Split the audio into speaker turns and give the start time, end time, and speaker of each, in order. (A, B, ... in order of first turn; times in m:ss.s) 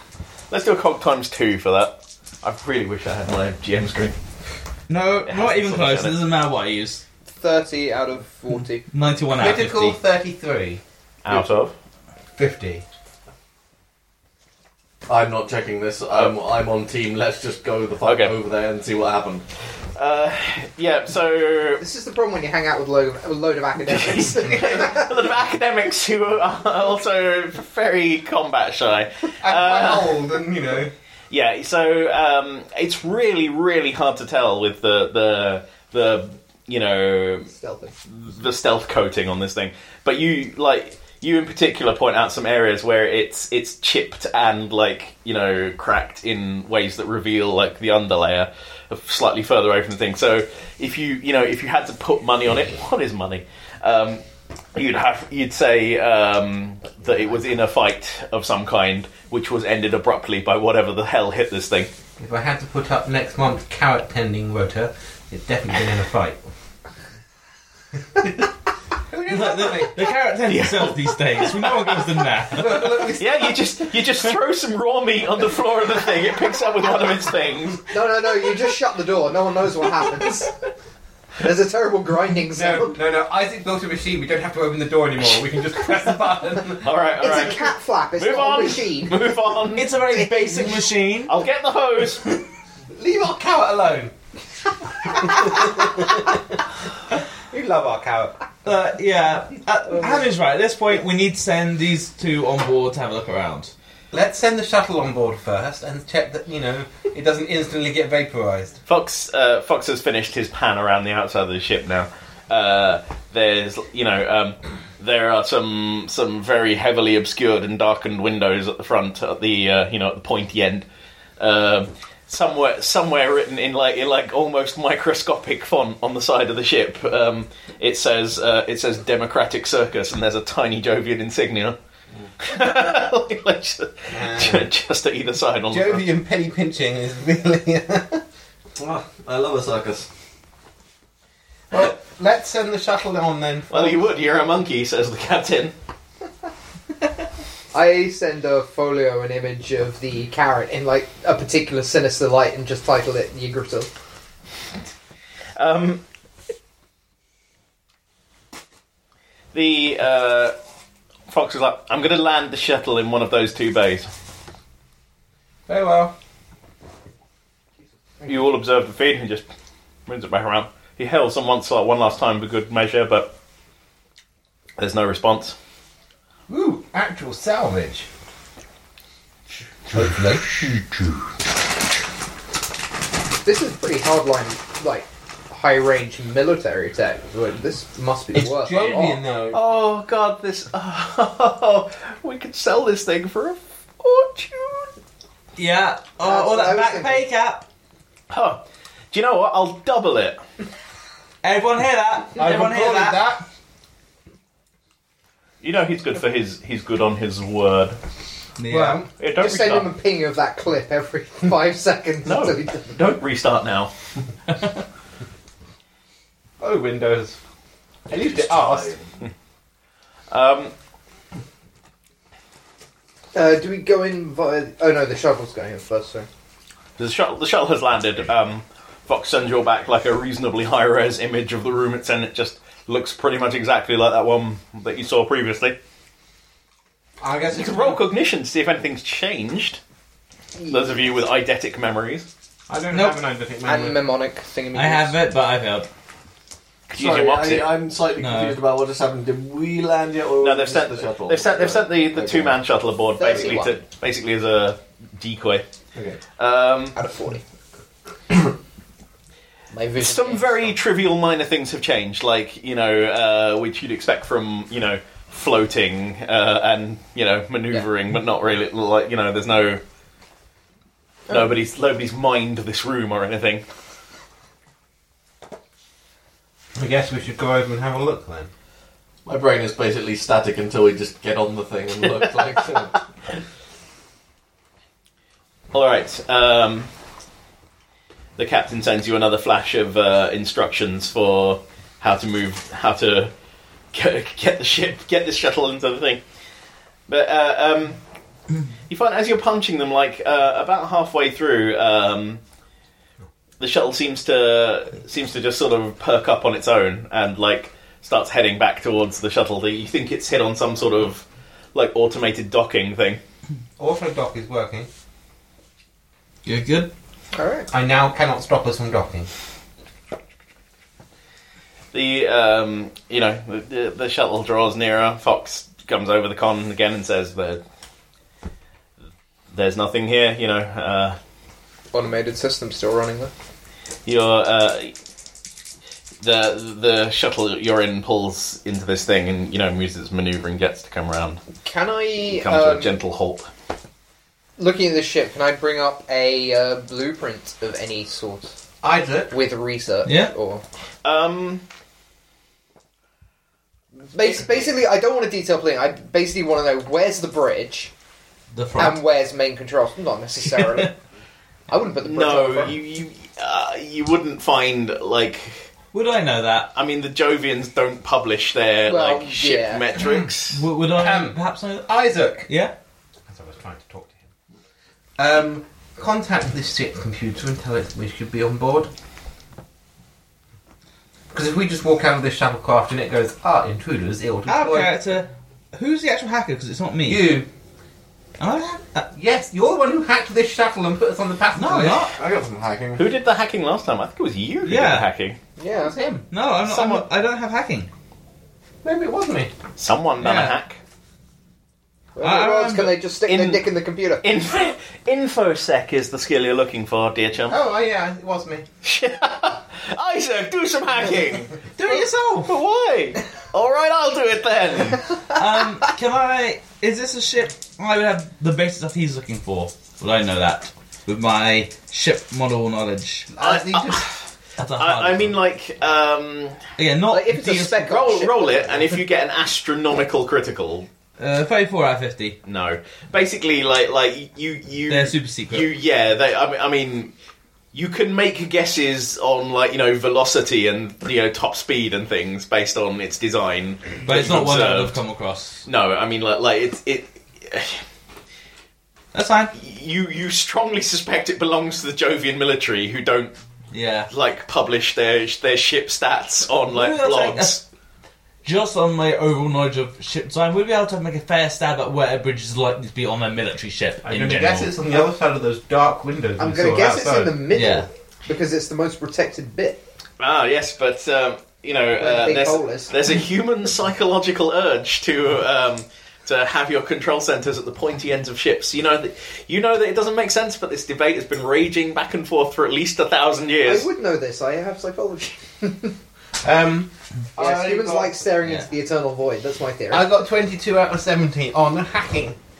0:00.5-0:04.2 A
0:04.9-0:07.0 B
0:05.2-0:06.2 A
0:07.4-0:08.8 C
0:08.9-0:10.0 B
0:09.4-0:10.8 D
0:11.2-0:11.7 A
0:12.4-0:12.8 D
0:15.1-0:19.4 E
0:18.0-0:18.3 A
0:19.9-0:21.8 A
0:21.8-0:25.1 C
0:23.9-0:30.2 A
0:29.4-0:30.9 D
0:31.3-0:37.5 A
0:37.5-0:37.9 C
0:38.1-0:54.2 A
0:54.7-1:01.9 A
1:02.2-1:06.4 D
1:09.1-1:10.0 D
1:09.3-1:13.1 B
1:10.4-1:12.0 A
1:12.5-1:13.7 D
1:13.2-1:17.9 A
1:17.9-1:20.5 C
1:21.4-1:23.0 C
1:22.5-1:26.9 D
1:26.8-1:29.9 A
1:27.2-1:29.2 C
1:29.7-1:31.4 B
1:30.1-1:30.8 C
1:31.2-1:32.4 A
1:32.9-1:34.1 D
1:35.0-1:36.5 D
1:37.5-1:38.4 D
1:38.6-1:43.7 B
1:44.1-1:48.8 D
1:48.9-2:00.8 A
2:01.4-2:11.8 A
2:12.4-2:16.1 A
2:14.1-2:14.7 D
2:15.7-2:18.2 D
2:18.8-2:20.1 E
2:21.7-2:24.0 D
2:23.7-2:25.7 A
2:27.7-2:33.9 C
2:35.6-2:36.0 A
2:39.5-2:40.5 A
2:41.3-2:44.1 A
2:45.7-2:46.1 D
2:48.2-2:49.5 A
2:50.0-2:53.3 A
2:54.8-2:55.6 A
2:56.5-2:58.1 D
2:59.9-3:00.6 D
3:03.4-3:09.2 C
3:08.3-3:09.6 D
3:09.5-3:14.9 A
3:15.6-3:17.7 B
3:16.2-3:17.2 C
3:18.3-3:20.4 A
3:21.4-3:23.3 B
3:22.4-3:23.4 D
3:25.6-3:28.0 A
3:28.6-3:29.0 B
3:28.7-3:29.1 D
3:29.2-3:29.9 A
3:29.3-3:33.0 C
3:32.2-3:33.9 A
3:36.6-3:37.4 D
3:38.1-3:38.9 D
3:38.1-3:39.0 E
3:40.3-3:40.7 A
3:43.3-3:46.3 C
3:47.0-3:55.8 A
3:57.2-3:58.0 D
3:57.5-3:59.8 A
4:00.6-4:00.8 C
4:00.7-4:02.3 A
4:02.7-4:04.0 D
4:02.9-4:03.2 B
4:03.6-4:05.1 C
4:04.7-4:05.9 B
4:06.9-4:07.7 A
4:06.9-4:12.6 E
4:08.2-4:08.6 B
4:10.4-4:15.6 A
4:13.2-4:13.8 C
4:16.4-4:17.0 A
4:16.9-4:17.4 C
4:19.7-4:20.8 C
4:20.0-4:29.8 A
4:31.3-4:33.6 A
4:36.8-4:38.5 D
4:39.2-4:43.0 E
4:45.7-4:46.9 A
4:48.4-4:53.3 A
4:53.9-4:56.2 A
4:57.1-4:58.0 A
4:58.9-5:02.4 A
5:03.6-5:13.2 A
5:13.8-5:14.9 D
5:16.4-5:16.9 B
5:17.3-5:17.7 C
5:17.7-5:19.3 D
5:21.9-5:27.6 A
5:29.5-5:31.2 A
5:31.9-5:33.3 C
5:34.0-5:34.9 A
5:36.2-5:41.4 A
5:41.6-5:42.9 C
5:42.3-5:43.5 A
5:44.6-5:48.6 C
5:48.8-5:49.3 D
5:49.3-5:50.6 C
5:50.0-5:50.3 B
5:51.0-5:51.6 A
5:54.1-5:57.9 C
5:58.5-5:59.0 B
5:58.8-6:00.9 C
6:01.7-6:02.7 C
6:02.0-6:05.7 A
6:05.9-6:06.7 B
6:06.7-6:10.6 A
6:08.9-6:09.8 C
6:10.0-6:10.3 D
6:10.5-6:11.9 B
6:10.9-6:12.5 D
6:12.5-6:12.7 B
6:13.3-6:14.3 D
6:15.2-6:18.9 D
6:21.3-6:24.9 D
6:24.5-6:27.4 B
6:27.0-6:27.5 D
6:28.4-6:29.1 B
6:29.1-6:32.0 D
6:31.5-6:32.1 B
6:32.2-6:33.0 E
6:33.0-6:35.4 A
6:34.6-6:35.0 B
6:35.6-6:35.9 C
6:35.8-6:36.2 D
6:36.3-6:37.9 B
6:36.6-6:37.0 A
6:38.8-6:39.5 D
6:39.8-6:40.8 A
6:40.2-6:40.6 B
6:42.2-6:44.2 C
6:42.2-6:43.0 B
6:43.2-6:43.6 A
6:44.2-6:47.6 A
6:47.5-6:48.7 D
6:48.8-6:55.1 A
6:51.8-6:52.6 B
6:55.3-7:03.3 B
7:03.3-7:04.0 D
7:03.4-7:04.2 A
7:04.6-7:05.3 B
7:04.8-7:06.6 A
7:06.8-7:07.9 B
7:07.1-7:08.8 C
7:07.8-7:10.9 A
7:11.2-7:12.4 B
7:12.4-7:17.1 A
7:14.9-7:15.7 B
7:17.7-7:25.0 A
7:24.0-7:25.6 B
7:25.6-7:27.8 A
7:29.1-7:29.5 B
7:29.5-7:33.3 A
7:33.7-7:34.1 B
7:34.1-7:37.6 A
7:36.7-7:37.6 B
7:38.4-7:44.7 B
7:44.0-7:47.4 D
7:46.4-7:49.8 C
7:47.5-7:47.9 B
7:50.2-8:03.9 A
7:52.0-7:52.9 C
8:03.6-8:05.9 C
8:06.4-8:08.0 D
8:07.4-8:10.1 C
8:09.9-8:12.4 D